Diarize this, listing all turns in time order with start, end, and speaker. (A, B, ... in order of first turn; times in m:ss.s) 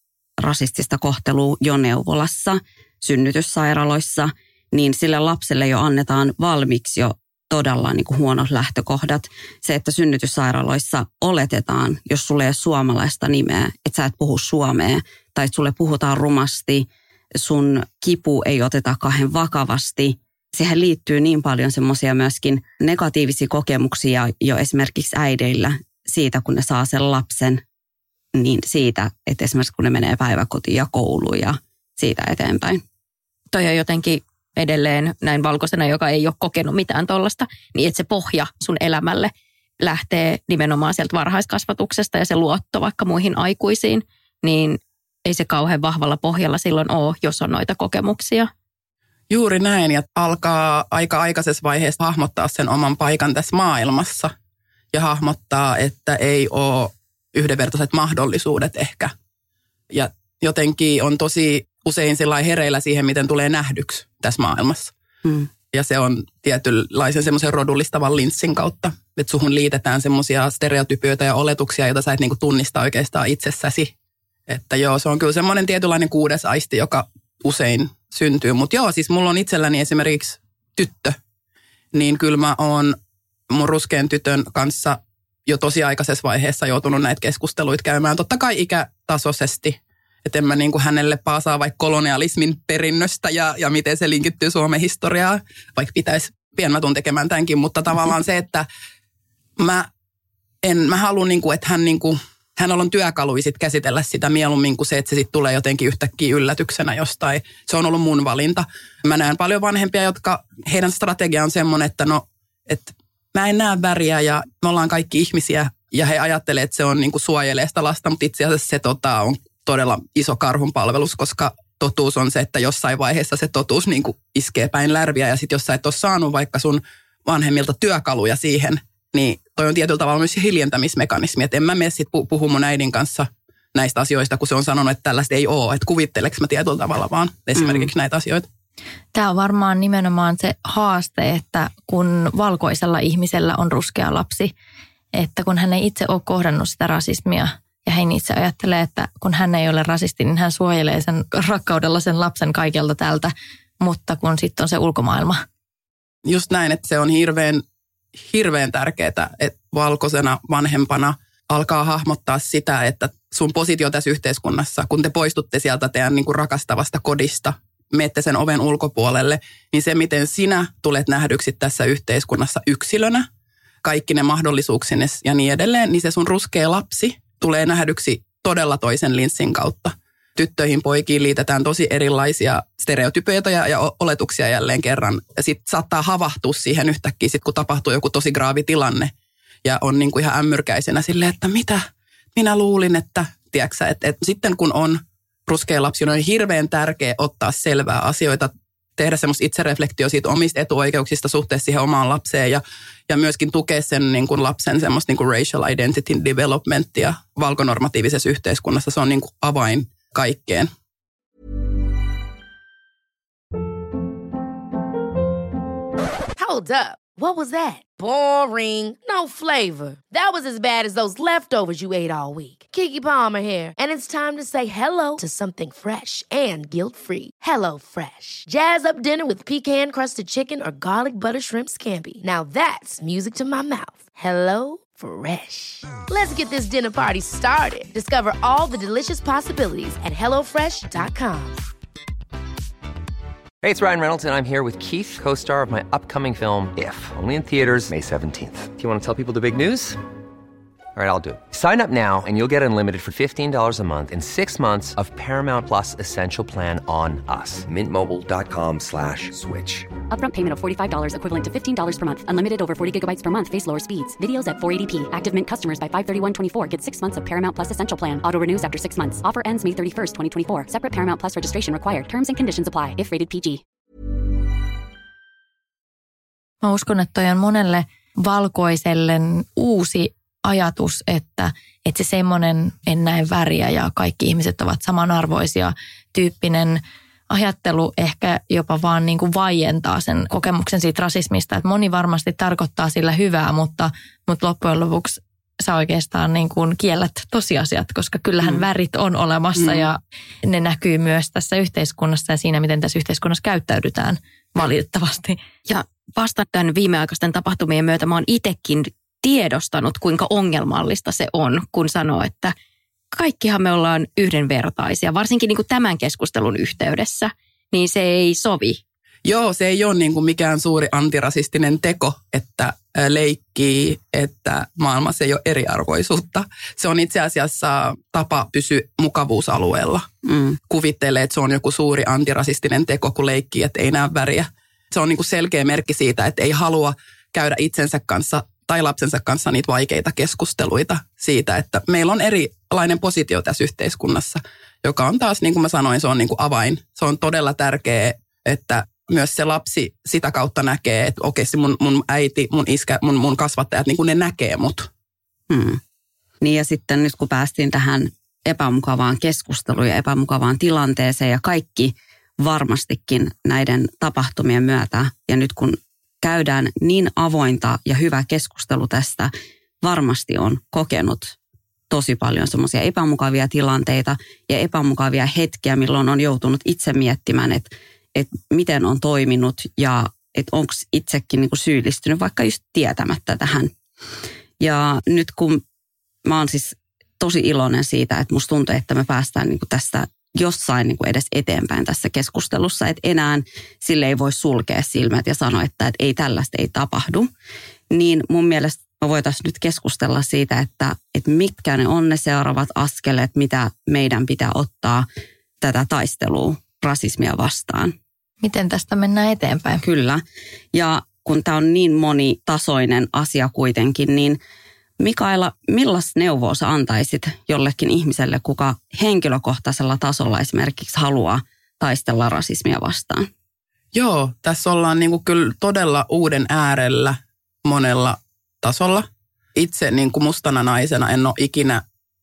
0:00.4-0:27.6 A
0:28.3-0:32.8 A
0:33.5-0:48.5 B
0:49.3-0:54.3 C
0:54.9-0:59.1 C
0:59.9-1:04.9 C
1:05.7-1:13.9 C
1:14.5-1:21.2 C
1:21.9-1:23.0 C
1:23.5-1:38.6 C
1:39.6-1:39.9 C
1:40.6-2:18.4 C
2:17.6-2:17.9 A
2:19.1-2:24.5 D
2:25.1-2:35.4 D
2:36.2-2:37.6 C
2:38.3-2:53.3 C
2:53.8-3:09.1 C
3:09.6-3:11.8 C
3:12.3-3:30.7 C
3:36.4-4:01.6 E
4:03.6-4:10.0 F
4:10.9-4:19.9 F
4:20.1-4:33.6 G
4:36.6-5:05.4 D
5:05.7-5:12.5 B
5:13.1-5:18.8 B
5:19.2-5:30.1 C
5:30.2-5:30.6 A
5:30.7-5:54.9 C
5:55.5-5:55.8 A
5:56.4-6:09.3 A
6:09.8-6:11.4 A
6:11.9-6:23.7 A
6:24.6-6:25.6 A
6:26.2-6:37.3 A
6:37.9-6:45.0 A
6:45.6-6:48.0 A
6:48.4-6:49.8 D
6:49.8-6:54.4 A
6:55.0-7:03.3 A
7:03.9-7:11.8 C